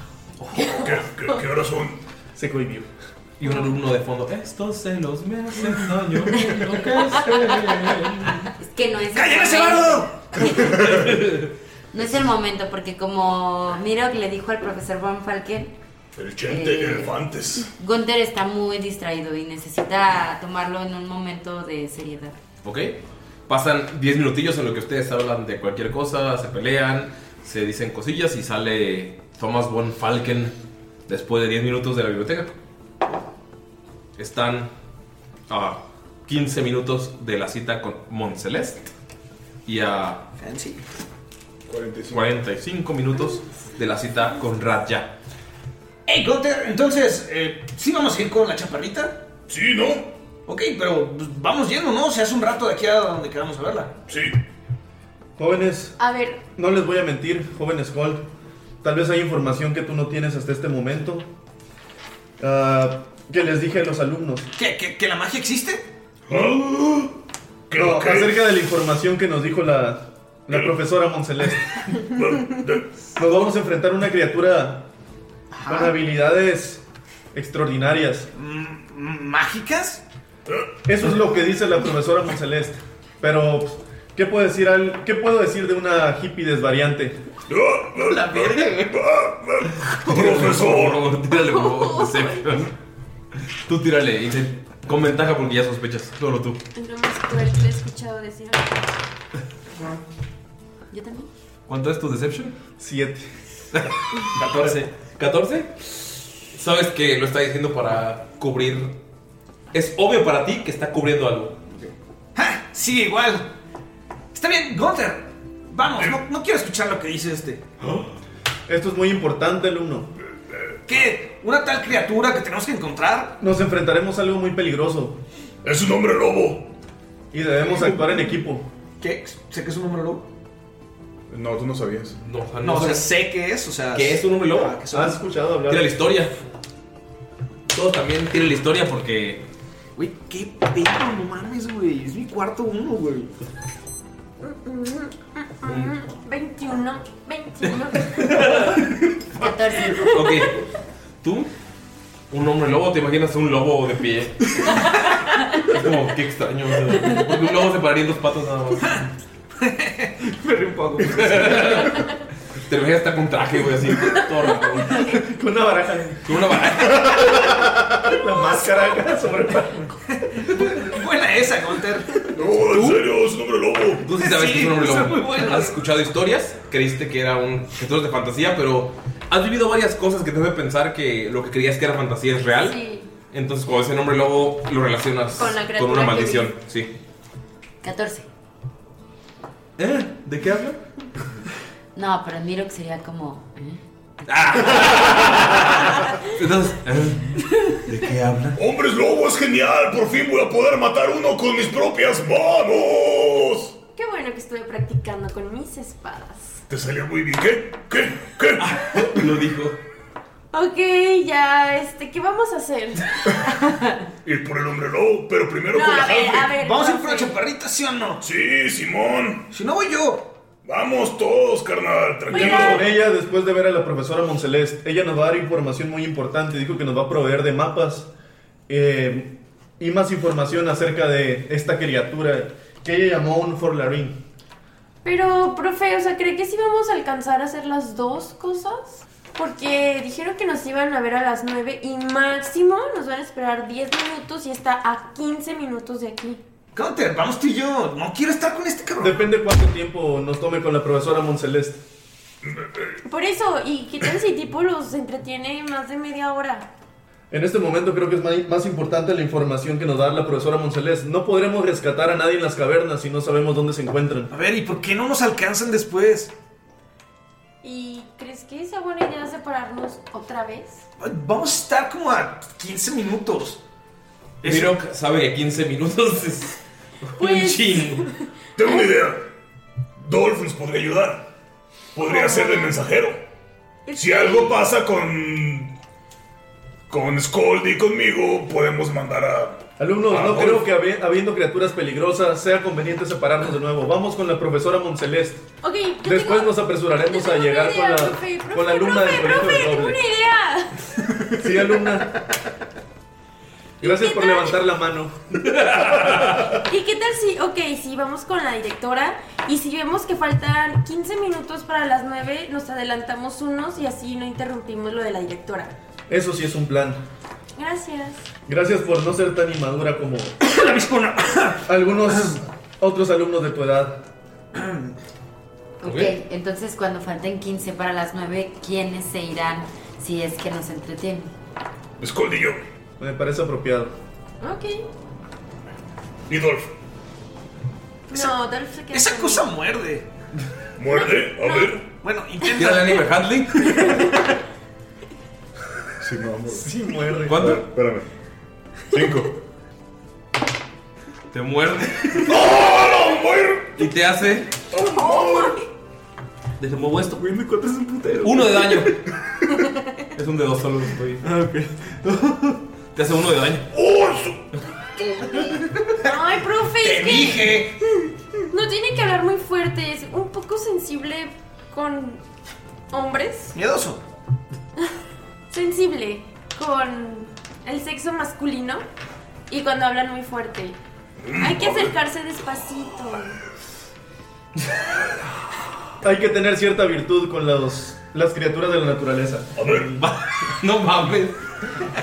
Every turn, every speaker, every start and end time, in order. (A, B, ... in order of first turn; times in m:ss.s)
0:00.6-0:02.0 A
0:02.4-0:02.9 B
0:03.4-0:08.2 C
0:08.6-0:10.9 D
0:09.1-0:10.1 E
0:10.8-0:11.4 C
0:11.9-0:15.7 D
0:16.2-0:17.7 A
0:16.5-0:17.2 D
0:17.8-0:22.4 D
0:22.6-0:30.5 C
0:31.1-0:32.5 C
0:34.2-0:34.7 C
0:35.5-0:38.9 C
0:39.6-0:40.2 C
0:40.4-0:40.8 E
0:41.7-0:42.3 F
0:42.1-0:45.1 C
0:46.0-0:49.2 E
0:49.5-0:50.1 A
0:50.4-0:53.9 E
0:54.1-0:54.3 A
0:55.4-0:55.9 B
0:56.0-0:56.4 G
0:56.6-0:58.2 B
0:58.8-1:01.3 B
1:02.4-1:04.5 B
1:04.6-1:05.8 E
1:06.3-1:07.1 A
1:07.7-1:08.4 A
1:07.7-1:11.7 B
1:12.1-1:12.9 A
1:13.2-1:14.9 B
1:15.5-1:15.9 E
1:15.6-1:16.8 B
1:17.3-1:18.3 B
1:18.3-1:20.0 E
1:20.8-1:27.2 B
1:27.5-1:31.0 A
1:28.0-1:28.9 E
1:30.0-1:32.7 C
1:31.3-1:32.6 G
1:33.7-1:36.6 C
1:36.7-1:39.0 G
1:40.9-1:41.3 D
1:41.7-1:42.5 C
1:42.8-1:43.3 B
1:44.3-1:44.9 E
1:44.6-1:45.9 C
1:46.5-1:49.0 C
1:49.7-1:51.6 C
1:51.7-1:53.5 E
1:54.3-1:57.6 E
1:58.7-2:00.1 B
2:00.9-2:03.4 E
2:03.4-2:05.2 B
2:05.6-2:06.7 A
2:07.3-2:08.6 B
2:07.8-2:08.1 E
2:09.0-2:10.2 E
2:11.3-2:12.2 F
2:12.2-2:13.1 C
2:12.6-2:15.2 E
2:13.9-2:14.8 C
2:14.9-2:15.9 B
2:15.7-2:16.3 C
2:17.7-2:19.4 C
2:20.0-2:23.3 E
2:24.4-2:28.3 G
2:25.6-2:25.9 C
2:28.3-2:28.7 C
2:29.3-2:30.0 D
2:29.9-2:30.4 G
2:30.0-2:30.5 C
2:31.2-2:31.5 C
2:32.3-2:34.6 C
2:35.6-2:38.9 C
2:39.6-2:41.8 E
2:41.1-2:42.0 C
2:42.7-2:45.0 C
2:45.1-2:46.2 B
2:46.2-2:47.2 C
2:47.2-2:49.9 B
2:50.7-2:53.1 E
2:52.3-2:54.0 A
2:54.0-3:02.8 C
2:54.2-2:55.8 E
3:02.5-3:03.1 G
3:03.3-3:06.9 C
3:05.3-3:06.6 G
3:07.8-3:08.3 D
3:09.8-3:10.8 C
3:11.9-3:15.0 D
3:14.3-3:18.6 C
3:18.6-3:23.7 A
3:24.0-3:26.6 G
3:26.7-3:29.2 A
3:28.6-3:29.8 C
3:30.5-3:33.2 G
3:34.2-3:36.5 A
3:35.7-3:37.4 G
3:36.5-3:38.2 E
3:38.2-3:39.4 A
3:39.5-3:40.3 E
3:40.6-3:42.9 A
3:42.3-3:42.9 G
3:42.3-3:48.1 B
3:48.7-3:54.2 B
3:55.0-4:06.4 G
4:06.7-4:09.2 E
4:09.0-4:11.8 B
4:13.0-4:16.7 G
4:17.3-4:24.3 B
4:24.3-4:26.3 E
4:27.6-4:30.8 G
4:31.0-4:33.6 E
4:34.4-4:34.7 E
4:34.4-4:36.6 C
4:37.1-4:38.1 C
4:37.2-4:38.9 G
4:38.6-4:39.2 A
4:40.0-4:41.2 A
4:41.9-4:43.2 A
4:42.0-4:42.8 G
4:43.9-4:44.6 G
4:43.9-4:45.7 A
4:46.9-4:50.6 A
4:49.8-4:55.4 B
4:55.6-5:00.7 G
4:56.0-5:00.0 B
5:01.3-5:02.1 B
5:03.8-5:04.6 G
5:03.8-5:05.2 B
5:05.5-5:06.4 C
5:06.6-5:15.7 G
5:16.1-5:17.0 B
5:17.6-5:18.2 G
5:18.5-5:20.3 B
5:20.4-5:21.6 E
5:21.6-5:24.0 B
5:24.5-5:24.9 E
5:25.8-5:31.3 D
5:25.8-5:26.1 C
5:32.0-5:32.6 A
5:33.0-5:33.9 B
5:34.4-5:34.8 G
5:36.3-5:36.7 A
5:38.1-5:39.5 G
5:38.9-5:40.1 E
5:40.8-5:41.8 A
5:41.2-5:41.8 G
5:42.0-5:43.1 E
5:42.5-5:43.7 C
5:43.6-5:44.1 E
5:46.0-5:46.7 F
5:46.5-5:47.5 B
5:47.3-5:47.6 C
5:47.3-5:48.1 F
5:48.9-5:49.3 F
5:51.3-5:52.3 C
5:52.3-5:53.7 A
5:53.8-5:54.5 C
5:54.8-5:55.6 G
5:56.6-5:57.2 C
5:57.2-5:58.9 E
5:58.2-5:59.0 C
6:00.1-6:01.2 C
6:01.2-6:02.6 E
6:02.9-6:03.7 C
6:03.7-6:04.4 A
6:06.0-6:07.6 G
6:06.8-6:07.8 E
6:08.5-6:12.2 G
6:12.9-6:13.5 G
6:13.5-6:14.0 E
6:15.5-6:18.8 G
6:19.5-6:20.8 G
6:21.2-6:21.9 A
6:21.4-6:23.4 G
6:26.0-6:29.5 B
6:29.6-6:29.9 A
6:30.0-6:31.4 C